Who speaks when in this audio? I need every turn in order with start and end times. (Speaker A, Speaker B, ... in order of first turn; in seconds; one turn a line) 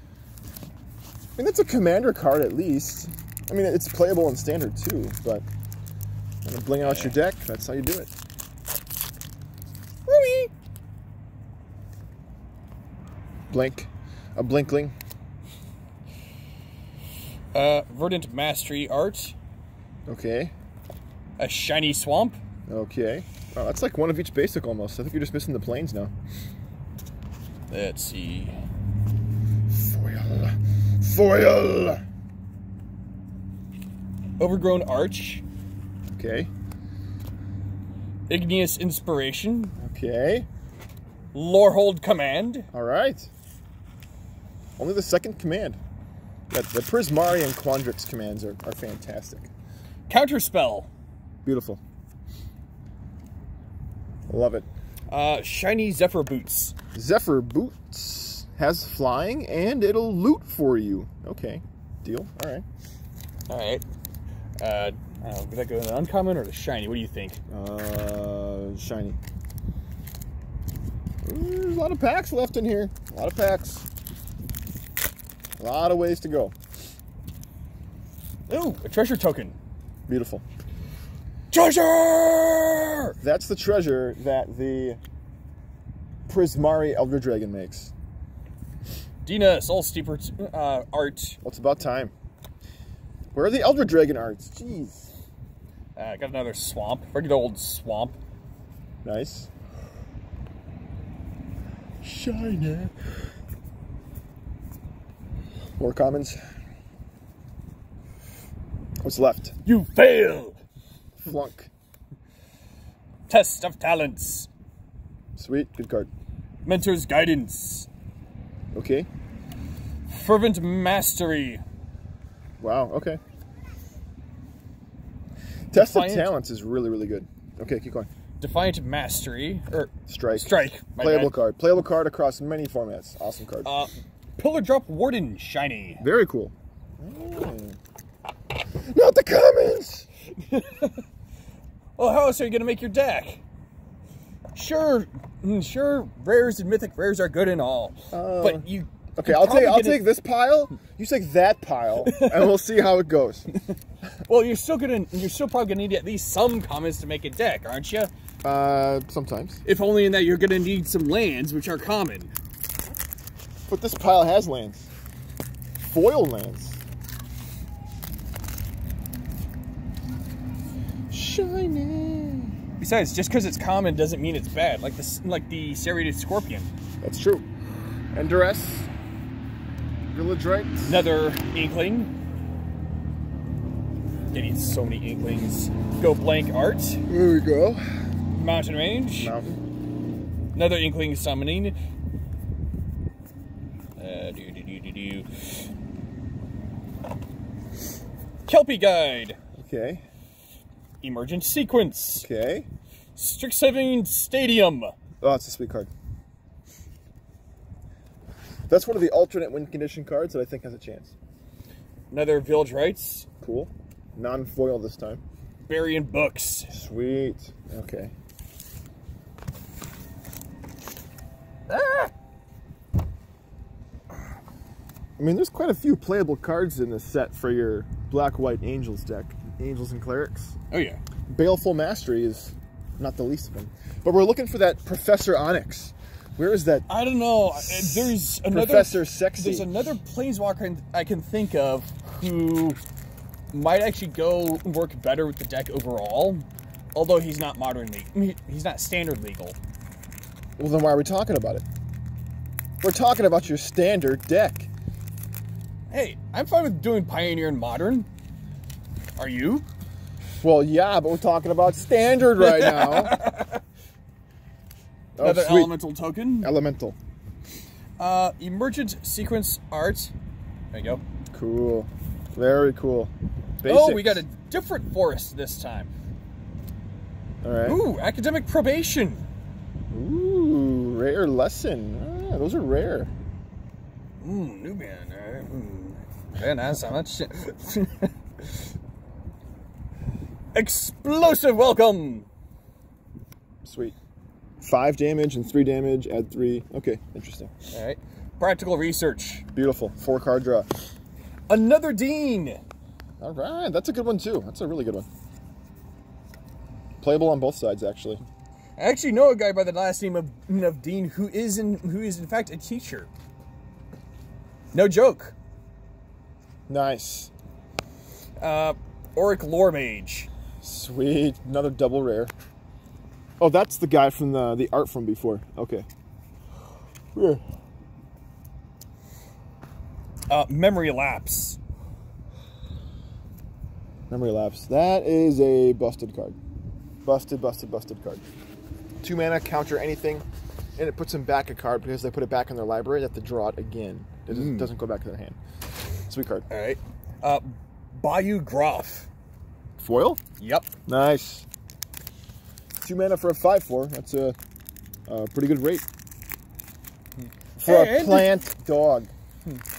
Speaker A: 1.4-5.5
Speaker A: 6.4-8.1
Speaker B: 6.8-7.1
Speaker B: 10.1-10.5
Speaker A: 13.5-14.9
Speaker B: 17.5-19.3
Speaker A: 20.1-20.5
Speaker B: 21.4-22.4
Speaker A: 22.7-26.1
Speaker B: 27.7-28.6
Speaker A: 29.7-32.0
Speaker B: 34.4-35.4
Speaker A: 36.1-36.5
Speaker B: 38.3-39.7
Speaker A: 39.8-40.5
Speaker B: 41.3-42.7
Speaker A: 42.7-43.3
Speaker A: 44.8-45.8
Speaker A: 46.5-49.5
Speaker B: 50.1-50.9
Speaker A: 51.4-51.8
Speaker A: 54.3-54.7
Speaker B: 55.1-56.7
Speaker A: 56.9-62.6
Speaker B: 63.5-63.8
Speaker B: 64.6-67.4
Speaker A: 67.5-69.2
Speaker A: 71.2-73.9
Speaker A: 75.6-76.5
Speaker B: 78.5-79.5
Speaker A: 80.1-80.4
Speaker B: 81.5-83.2
Speaker A: 83.2-85.0
Speaker A: 86.3-87.9
Speaker B: 89.2-91.4
Speaker A: 91.4-92.1
Speaker A: 93.3-95.1
Speaker B: 96.0-98.2
Speaker A: 99.0-99.5
Speaker A: 102.0-102.9
Speaker A: 105.8-106.4
Speaker A: 109.0-109.5
Speaker B: 109.7-110.6
Speaker A: 111.2-111.7
Speaker B: 113.3-114.5
Speaker A: 115.3-116.1
Speaker B: 116.6-117.9
Speaker A: 118.7-119.1
Speaker B: 120.1-121.6
Speaker A: 122.6-123.2
Speaker A: 125.7-128.1
Speaker B: 125.7-126.3
Speaker B: 128.4-131.4
Speaker A: 130.1-133.7
Speaker B: 133.6-136.0
Speaker A: 136.0-137.8
Speaker A: 138.8-140.1
Speaker B: 140.4-141.0
Speaker B: 142.0-143.4
Speaker B: 144.5-150.0
Speaker A: 148.1-153.5
Speaker B: 152.0-152.5
Speaker B: 154.2-158.1
Speaker A: 158.4-159.6
Speaker B: 159.6-162.3
Speaker A: 163.7-164.9
Speaker A: 165.8-166.8
Speaker A: 171.1-172.6
Speaker B: 172.8-176.7
Speaker A: 177.0-177.5
Speaker A: 178.1-178.9
Speaker A: 180.1-181.1
Speaker B: 180.8-182.1
Speaker B: 184.3-187.0
Speaker A: 187.1-188.1
Speaker B: 188.3-189.4
Speaker A: 189.2-189.6
Speaker B: 190.5-191.8
Speaker B: 194.0-195.4
Speaker B: 198.4-199.4
Speaker A: 199.6-200.0
Speaker B: 201.0-202.3
Speaker A: 202.2-202.7
Speaker B: 203.2-204.9
Speaker A: 205.2-205.9
Speaker A: 208.7-211.1
Speaker B: 212.1-213.3
Speaker A: 213.4-215.2
Speaker B: 215.6-216.7
Speaker A: 216.7-218.1
Speaker B: 221.7-222.1
Speaker A: 225.2-230.6
Speaker B: 230.7-231.0
Speaker A: 231.3-236.9
Speaker B: 236.9-242.8
Speaker A: 237.5-239.7
Speaker B: 243.5-249.6
Speaker A: 250.6-251.6
Speaker A: 252.8-254.7
Speaker B: 255.9-258.1
Speaker B: 259.2-259.6
Speaker A: 260.4-263.2
Speaker B: 262.4-263.6
Speaker A: 265.1-265.8
Speaker B: 265.2-266.5
Speaker A: 266.4-267.0
Speaker B: 268.0-270.1
Speaker B: 270.7-271.0
Speaker A: 271.3-274.2
Speaker B: 273.6-275.9
Speaker A: 277.4-277.8
Speaker B: 277.6-279.2
Speaker A: 279.9-283.1
Speaker B: 284.2-288.5
Speaker B: 290.5-292.3
Speaker A: 293.6-293.9
Speaker A: 294.6-297.5
Speaker B: 297.7-299.4
Speaker A: 299.5-300.8
Speaker B: 301.5-302.6
Speaker A: 303.2-305.1
Speaker A: 307.0-308.2
Speaker B: 308.8-313.1
Speaker B: 314.7-315.3
Speaker A: 316.7-317.3
Speaker B: 318.4-320.3
Speaker A: 320.6-322.3
Speaker A: 323.4-325.9
Speaker A: 327.1-327.4
Speaker B: 330.3-331.6
Speaker A: 334.1-336.4
Speaker A: 337.0-338.2
Speaker A: 339.0-340.2
Speaker A: 340.8-345.4
Speaker B: 344.3-344.7
Speaker A: 346.1-346.4
Speaker B: 346.5-349.1
Speaker A: 349.8-350.2
Speaker B: 350.4-350.7
Speaker A: 350.9-351.5
Speaker A: 352.8-354.4
Speaker A: 355.1-355.9
Speaker A: 357.6-359.1
Speaker B: 357.6-358.3